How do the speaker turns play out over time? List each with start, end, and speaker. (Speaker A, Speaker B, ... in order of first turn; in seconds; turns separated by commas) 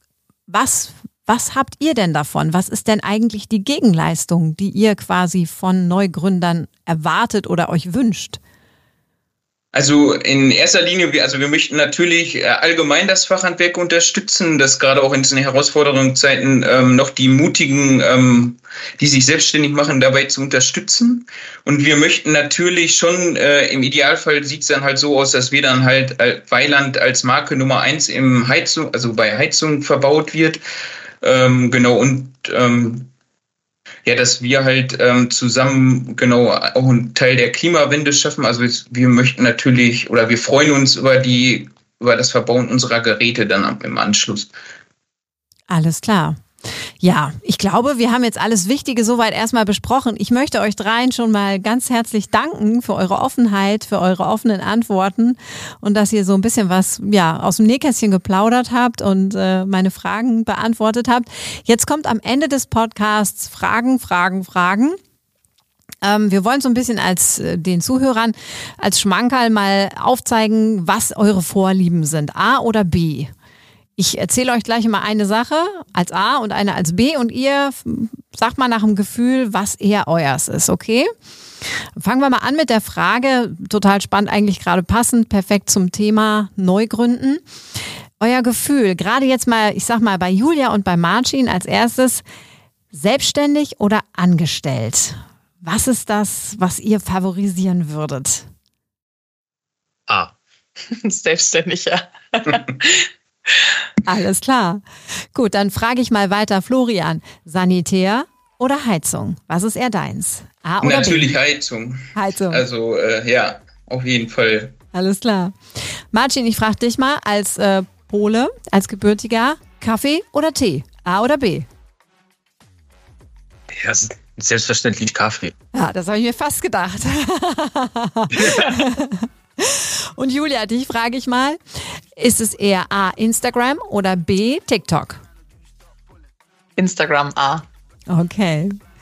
Speaker A: 0.5-8.4, Speaker B: 9.7-30.6, Speaker B: 31.2-33.1, Speaker B: 34.0-44.5, Speaker A: 45.7-46.4, Speaker A: 47.0-65.0, Speaker A: 66.0-73.3, Speaker A: 74.0-81.1, Speaker A: 82.0-87.4, Speaker A: 88.2-92.2, Speaker A: 92.9-98.5, Speaker C: 100.9-103.1, Speaker A: 104.0-104.8, Speaker A: 105.3-111.3, Speaker B: 110.8-114.7, Speaker A: 112.1-112.6, Speaker A: 114.9-115.6, Speaker A: 116.1-121.7, Speaker D: 123.7-125.5, Speaker A: 125.7-135.2, Speaker D: 128.4-128.7, Speaker C: 136.8-137.6, Speaker A: 138.1-138.8